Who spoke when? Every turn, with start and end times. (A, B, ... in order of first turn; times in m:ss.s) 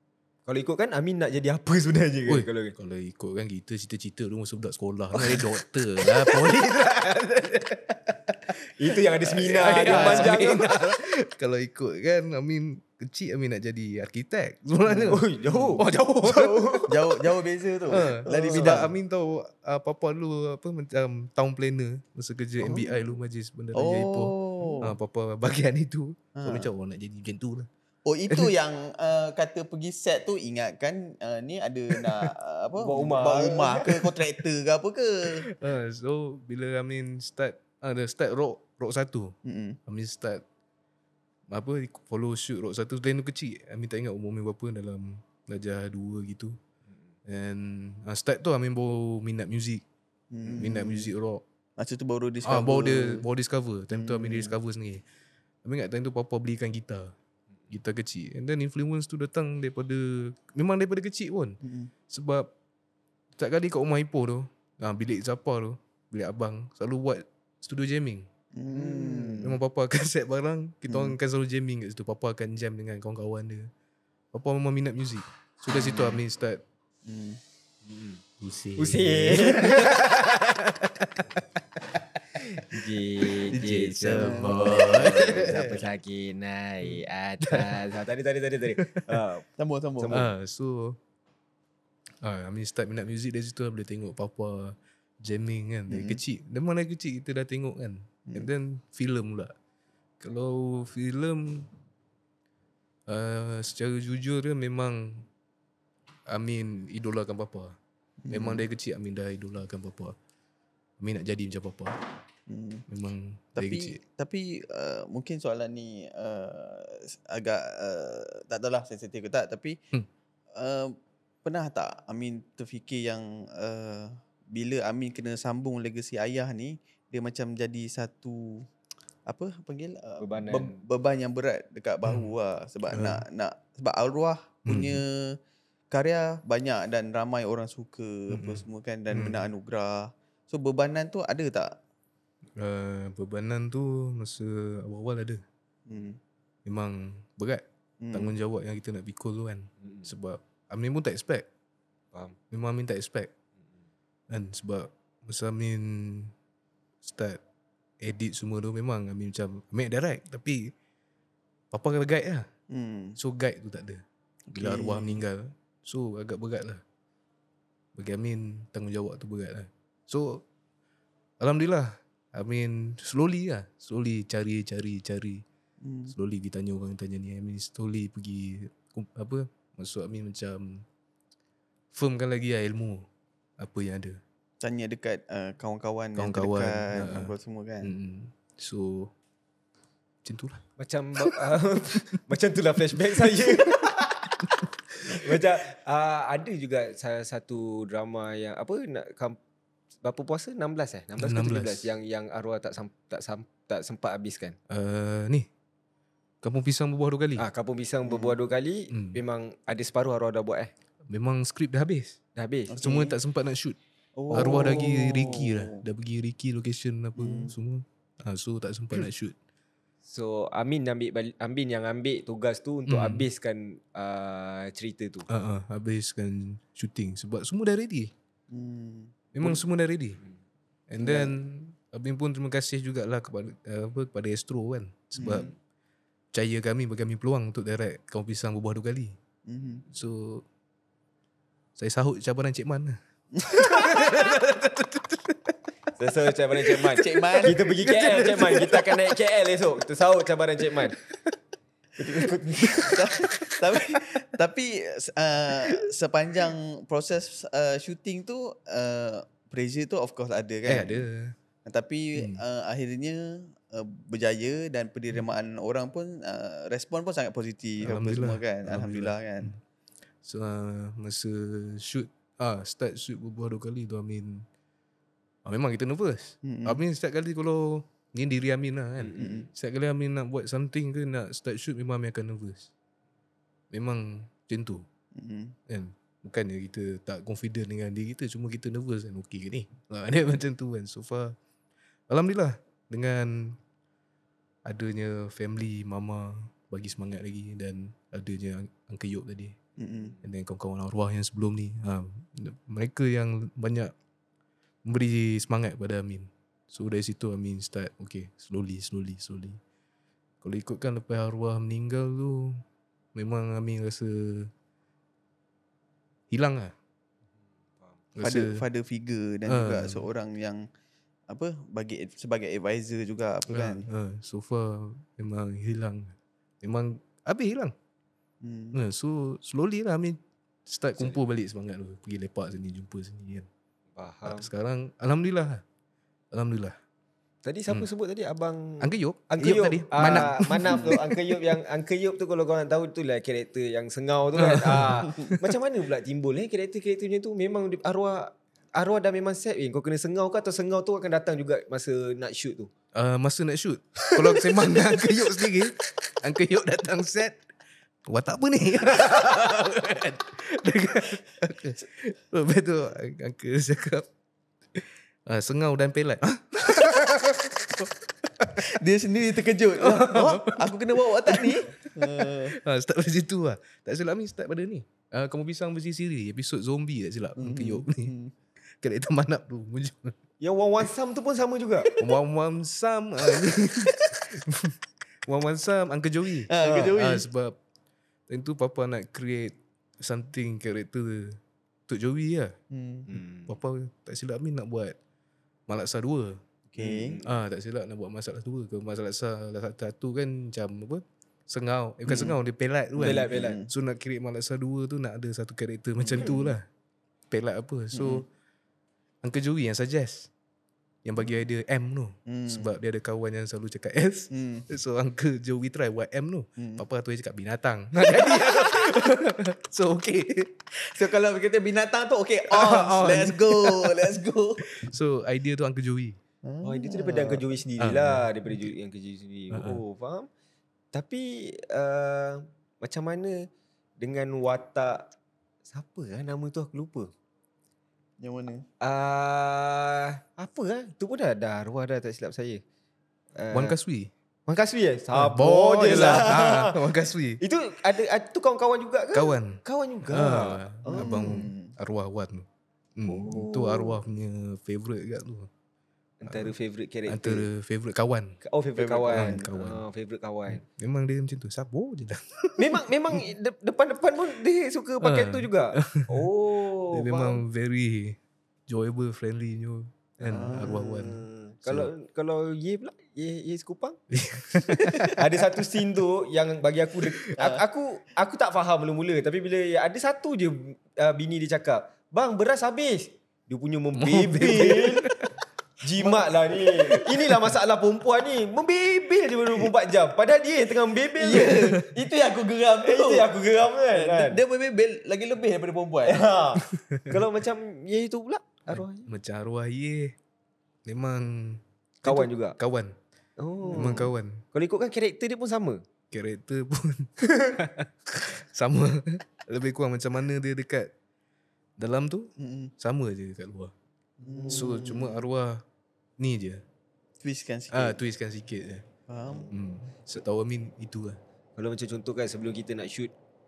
0:00.5-0:02.8 A
0:02.3-0:08.6 B
0:05.2-0:06.4 A
0:08.7-0:10.7 A
0:09.3-0:16.9 B
0:09.8-0:10.5 C
0:14.9-0:15.8 C
0:15.0-0:17.0 A
0:16.9-0:18.9 C
0:17.9-0:27.7 B
0:17.9-0:18.9 A
0:22.6-0:23.1 C
0:23.7-0:25.0 C
0:26.4-0:26.7 C
0:28.0-0:35.5 C
0:32.0-0:32.3 B
0:32.8-0:34.0 A
0:35.4-0:39.4 B
0:39.4-0:39.8 C
0:39.9-0:40.4 B
0:41.5-0:46.6 B
0:47.3-0:49.8 B
0:50.3-0:51.1 C
0:50.5-0:51.4 B
0:51.8-0:53.3 C
0:52.4-0:55.0 B
0:53.9-0:54.6 C
0:55.6-0:57.1 B
0:57.7-1:02.5 B
1:01.6-1:01.9 C
1:03.4-1:08.3 B
1:08.6-1:09.6 C
1:08.8-1:13.7 B
1:10.9-1:11.2 C
1:14.3-1:16.6 B
1:15.7-1:16.2 C
1:17.0-1:17.4 C
1:17.8-1:18.2 A
1:18.4-1:21.4 B
1:18.8-1:20.4 A
1:21.9-1:22.8 B
1:22.4-1:29.5 A
1:23.5-1:25.7 B
1:24.1-1:25.7 C
1:27.4-1:27.8 B
1:28.8-1:29.2 B
1:29.6-1:30.2 C
1:30.0-1:30.3 A
1:30.1-1:31.0 B
1:32.2-1:39.5 B
1:35.9-1:36.2 C
1:40.2-1:41.7 B
1:43.1-1:45.3 B
1:46.3-1:47.8 B
1:48.2-1:48.7 C
1:48.3-1:50.2 B
1:51.0-1:52.0 B
1:52.5-1:52.8 C
1:52.9-1:54.0 B
1:53.6-1:59.8 C
2:00.5-2:08.7 C
2:09.3-2:15.4 C
2:10.2-2:10.8 A
2:12.0-2:12.3 B
2:12.9-2:13.2 B
2:14.7-2:15.0 B
2:15.9-2:21.8 C
2:18.3-2:19.5 B
2:22.6-2:25.4 B
2:25.9-2:26.2 C
2:26.6-2:31.5 B
2:28.0-2:28.4 C
2:29.8-2:30.1 A
2:32.5-2:33.3 B
2:34.3-2:36.3 B
2:37.0-2:37.4 B
2:38.0-2:40.7 B
2:41.7-2:42.5 B
2:42.7-2:43.2 C
2:43.2-2:44.0 B
2:44.5-2:45.2 C
2:44.5-2:46.8 B
2:48.0-2:50.4 B
2:51.4-2:55.4 B
2:55.8-2:56.1 C
2:56.1-3:00.8 B
3:01.9-3:03.1 B
3:03.6-3:04.2 B
3:04.6-3:07.9 C
3:06.2-3:09.1 B
3:10.2-3:10.6 B
3:10.8-3:14.4 A
3:15.0-3:19.4 A
3:20.0-3:24.6 A
3:21.2-3:21.9 B
3:24.7-3:25.5 B
3:26.4-3:27.4 B
3:27.4-3:30.7 A
3:28.1-3:28.4 C
3:28.9-3:29.2 B
3:31.1-3:32.2 B
3:32.4-3:32.8 A
3:32.7-3:33.2 C
3:32.8-3:33.8 B
3:34.2-3:35.8 C
3:34.3-3:34.7 A
3:34.3-3:39.4 B
3:37.2-3:37.5 C
3:40.0-3:45.3 A
3:42.9-3:43.3 B
3:45.3-3:48.1 B
3:48.5-3:49.6 C
3:49.3-3:50.2 B
3:50.9-3:55.5 B
3:51.0-3:51.4 C
3:55.2-3:55.5 C
3:55.2-3:55.5 A
3:56.3-3:59.2 B
3:59.5-3:59.8 C
3:59.9-4:00.4 B
4:01.8-4:05.6 B
4:03.3-4:04.1 C
4:06.0-4:11.0 A
4:06.8-4:09.2 B
4:06.9-4:07.7 C
4:12.0-4:13.0 A
4:12.0-4:21.1 C
4:13.2-4:14.0 B
4:20.7-4:21.4 B
4:21.6-4:29.6 C
4:22.2-4:22.4 B
4:27.8-4:29.6 B
4:30.2-4:34.5 B
4:35.4-4:42.7 B
4:36.4-4:36.8 C
4:39.0-4:39.5 A
4:39.2-4:39.5 C
4:43.7-4:44.8 B
4:45.1-4:45.6 C
4:45.7-4:51.4 B
4:52.1-4:53.6 B
4:54.6-4:59.6 B
4:59.8-5:00.2 C
5:00.0-5:00.2 A
5:00.2-5:03.9 B
5:04.9-5:09.6 B
5:10.4-5:12.6 B
5:13.2-5:14.5 B
5:16.3-5:16.7 B
5:18.2-5:18.6 B
5:18.2-5:20.7 C
5:19.5-5:20.1 B
5:21.3-5:23.9 C
5:23.5-5:27.7 B
5:28.4-5:28.8 C
5:28.7-5:33.5 B
5:34.0-5:34.5 A
5:34.3-5:35.6 B
5:36.3-5:36.8 B
5:37.4-5:52.7 A
5:38.8-5:41.4 B
5:40.0-5:41.0 C
5:44.4-5:45.4 B
5:52.9-5:57.4 B
5:58.1-6:04.1 B
6:04.8-6:08.7 B
6:08.6-6:12.6 C
6:09.8-6:18.1 B
6:17.4-6:18.3 C
6:18.8-6:20.2 B
6:20.4-6:21.9 A
6:22.0-6:27.6 B
6:23.3-6:24.2 C
6:26.5-6:27.3 C
6:26.6-6:26.9 A
6:28.3-6:32.6 B
6:32.7-6:33.1 C
6:33.1-6:33.6 A
6:33.1-6:35.0 B
6:35.7-6:36.4 B
6:36.7-6:37.2 C
6:36.8-6:37.3 A
6:37.2-6:46.6 B
6:42.1-6:42.4 C
6:43.0-6:43.7 C
6:43.0-6:43.6 A
6:46.0-6:46.6 C
6:47.3-6:48.3 B
6:47.9-6:48.2 C
6:49.2-6:50.3 B
6:51.0-7:00.6 B
6:52.3-6:52.7 C
6:54.3-6:54.7 C
6:56.6-6:56.8 C
6:58.0-6:59.1 C
7:00.8-7:04.7 C
7:02.5-7:06.2 B
7:06.4-7:07.4 C
7:06.6-7:10.3 A
7:07.8-7:08.7 B
7:09.5-7:09.8 B
7:10.9-7:13.5 A
7:14.0-7:15.1 A
7:15.7-7:17.1 A
7:18.2-7:18.6 C
7:18.8-7:22.6 A
7:23.4-7:23.8 A
7:23.5-7:24.1 B
7:24.5-7:26.8 A
7:25.1-7:27.4 B
7:25.9-7:26.3 C
7:27.4-7:31.5 A
7:29.1-7:35.5 B
7:30.9-7:31.7 C
7:33.1-7:34.0 A
7:36.2-7:37.5 A
7:36.3-7:36.5 B
7:37.1-7:38.4 B
7:38.4-7:40.6 A
7:38.8-7:39.5 C
7:39.1-7:39.8 B
7:40.5-7:42.8 B
7:42.6-7:47.4 A
7:45.0-7:46.3 B
7:46.9-7:51.9 B
7:50.2-7:54.0 A
7:50.3-7:50.9 C
7:54.1-7:55.2 B
7:54.6-8:05.1 A
7:57.4-7:57.6 C
8:04.0-8:05.3 B
8:05.8-8:11.8 A
8:06.0-8:06.3 C
8:11.2-8:13.3 C
8:11.3-8:12.0 B
8:12.8-8:14.4 A
8:13.9-8:16.3 C
8:16.1-8:19.1 A
8:16.7-8:17.2 B
8:18.7-8:20.2 B
8:20.9-8:23.0 B
8:22.0-8:22.6 A
8:23.4-8:25.8 A
8:23.7-8:24.0 C
8:23.7-8:24.4 B
8:26.1-8:30.9 B
8:27.3-8:27.6 A
8:31.8-8:33.7 B
8:32.4-8:32.7 C
8:34.2-8:35.3 C
8:34.3-8:34.8 A
8:34.5-8:35.6 B
8:36.2-8:36.6 B
8:37.2-8:38.0 C
8:37.7-8:38.8 B
8:39.1-8:39.5 C
8:39.3-8:39.5 A
8:39.5-8:41.2 B
8:41.6-8:43.1 A